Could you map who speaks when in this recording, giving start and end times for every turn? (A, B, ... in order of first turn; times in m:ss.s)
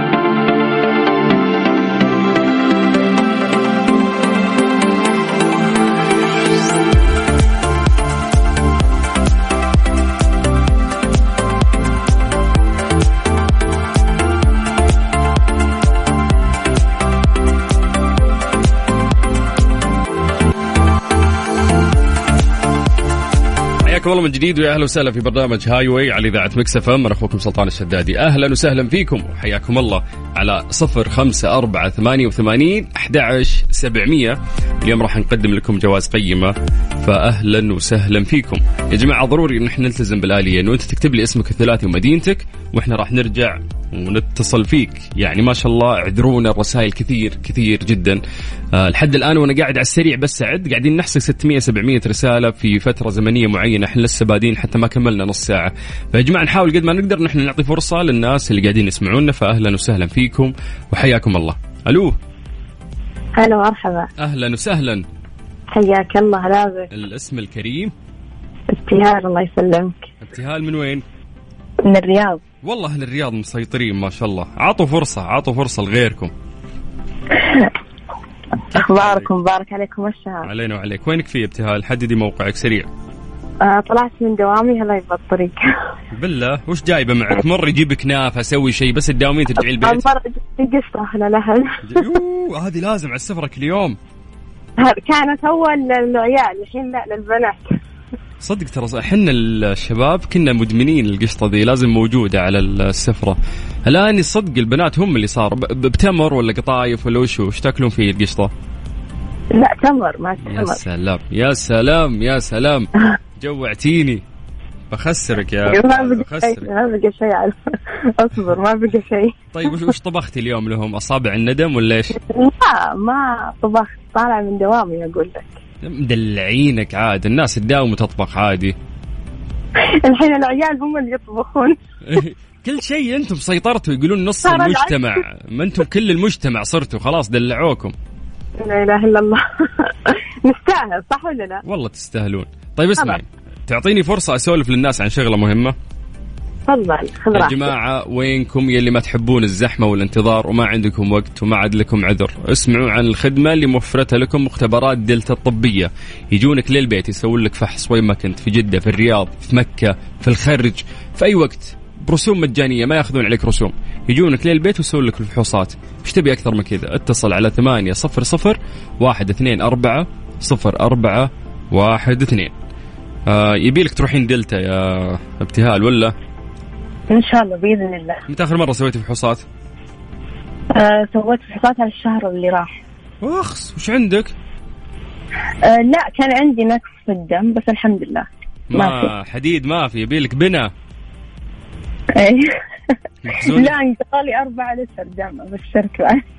0:23.8-0:48.2 A
0:48.7-1:02.2 A
1:03.4-1:04.1 B
1:04.2-1:05.0 A
1:05.7-1:06.9 B
1:06.9-1:07.9 A
1:08.7-1:10.1 B
1:10.2-1:11.0 A
1:11.8-1:12.4 B
1:12.6-1:16.3 A
1:17.3-1:17.7 B
1:18.7-1:19.3 A
1:18.7-1:20.5 B
1:20.4-1:22.9 A
1:23.6-1:25.6 B
1:26.1-1:30.0 A
1:29.6-1:32.1 B
1:31.8-1:34.0 A
1:34.8-1:37.8 B
1:38.4-1:48.5 A
1:49.5-1:50.8 B
1:50.4-1:54.2 A
1:54.9-1:56.7 A
1:55.7-1:59.9 B
1:59.5-2:02.1 A
2:02.1-2:05.6 B
2:05.8-2:08.7 A
2:09.8-2:11.8 B
2:12.0-2:17.9 A
2:14.4-2:15.0 B
2:18.6-2:21.6 B
2:21.6-2:25.7 A
2:26.7-2:27.7 B
2:27.3-2:52.5 A
2:53.3-2:56.1 A
2:57.1-2:58.2 B
2:58.3-2:59.4 A
3:00.7-3:02.8 B
3:03.2-3:04.3 A
3:05.6-3:09.1 B
3:08.7-3:10.7 A
3:12.1-3:12.6 B
3:13.2-3:13.7 A
3:13.5-3:16.2 B